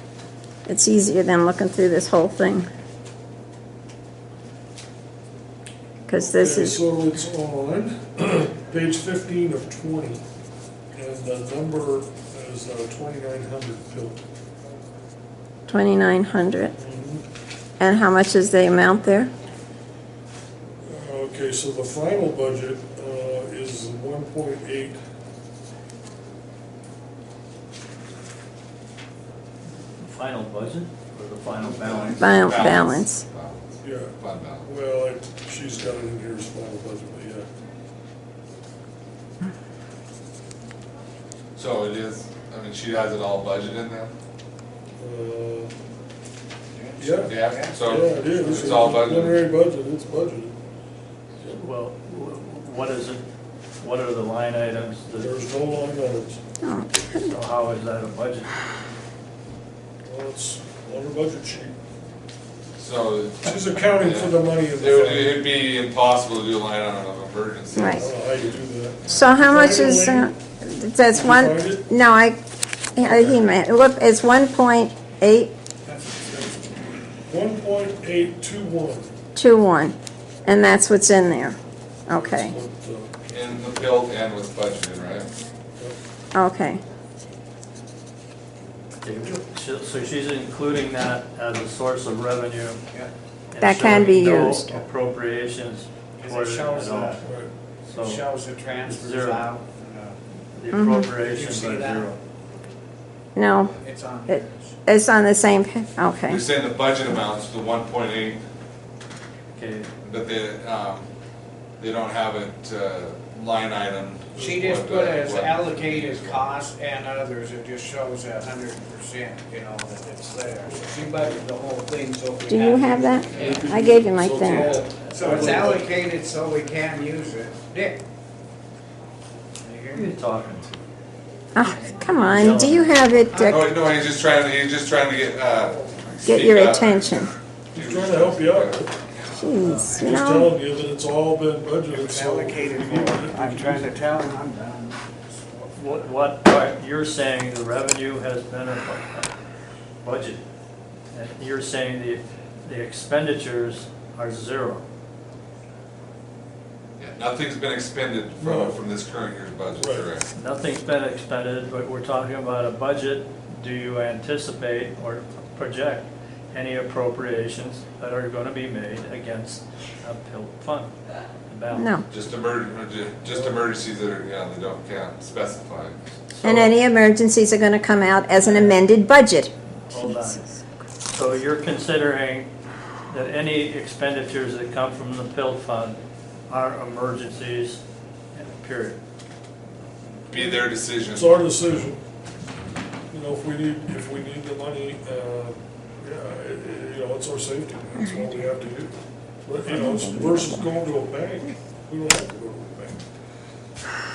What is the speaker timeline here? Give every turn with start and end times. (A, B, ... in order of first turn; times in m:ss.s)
0:00.7-0:02.7 A
0:06.1-0:06.8 A
0:06.2-0:10.2 B
0:10.9-0:14.2 B
0:15.7-0:16.7 A
0:16.7-0:17.2 B
0:17.8-0:19.3 A
0:20.9-0:25.0 B
0:30.0-0:32.3 C
0:31.8-0:34.7 D
0:32.2-0:33.2 A
0:33.8-0:37.5 B
0:41.6-0:44.1 D
0:45.0-0:45.7 B
0:46.7-0:47.8 E
0:47.0-0:50.6 B
0:47.2-0:49.4 D
0:51.5-0:53.2 C
0:53.8-0:55.3 C
0:55.2-0:56.4 B
0:56.6-0:57.3 A
0:57.2-0:58.6 C
1:00.0-1:01.8 B
1:02.8-1:09.3 D
1:03.4-1:05.5 B
1:07.7-1:08.1 A
1:07.9-1:10.3 B
1:09.1-1:12.4 A
1:11.1-1:11.8 B
1:13.0-1:15.5 A
1:15.8-1:16.7 E
1:17.3-1:19.2 B
1:19.4-1:21.6 A
1:22.1-1:22.6 A
1:22.1-1:23.4 B
1:23.3-1:25.3 D
1:26.3-1:26.8 A
1:29.0-1:32.8 C
1:33.5-1:37.2 C
1:33.6-1:34.7 A
1:36.2-1:37.3 E
1:37.2-1:37.5 B
1:37.9-1:38.2 C
1:38.0-1:40.2 E
1:38.9-1:39.5 C
1:40.5-1:42.2 C
1:40.7-1:41.1 A
1:41.1-1:42.1 E
1:43.4-1:43.7 A
1:43.8-1:44.8 E
1:44.3-1:46.4 A
1:46.3-1:48.4 D
1:49.6-1:49.9 C
1:50.0-1:51.1 D
1:51.8-1:56.6 D
1:54.3-1:54.7 B
1:54.4-2:03.6 E
2:02.5-2:04.8 A
2:03.3-2:03.7 D
2:03.4-2:05.9 B
2:04.4-2:08.0 E
2:05.2-2:05.7 C
2:09.6-2:10.1 E
2:10.0-2:10.8 C
2:11.6-2:13.6 A
2:12.1-2:12.9 C
2:13.3-2:13.6 E
2:13.5-2:17.1 D
2:16.3-2:17.3 A
2:17.7-2:18.8 D
2:17.7-2:19.0 B
2:19.3-2:20.5 A
2:19.6-2:19.9 C
2:19.8-2:20.2 E
2:20.0-2:24.0 B
2:21.9-2:25.9 E
2:25.8-2:29.3 C
2:30.0-2:30.4 C
2:31.1-2:34.8 C
2:37.0-2:40.3 D
2:38.4-2:38.8 B
2:39.8-2:40.1 B
2:40.4-2:50.9 C
2:51.5-2:52.0 C
2:51.7-2:52.0 A
2:52.1-2:56.0 D
2:56.3-2:56.8 C
2:56.4-3:00.4 A
2:58.4-2:58.8 C
2:59.9-3:00.5 C
3:01.1-3:02.5 C
3:03.1-3:07.8 C
3:08.3-3:09.0 C
3:10.3-3:11.4 D
3:11.1-3:12.0 B
3:13.1-3:18.9 B
3:19.4-3:23.0 B
3:19.7-3:20.7 A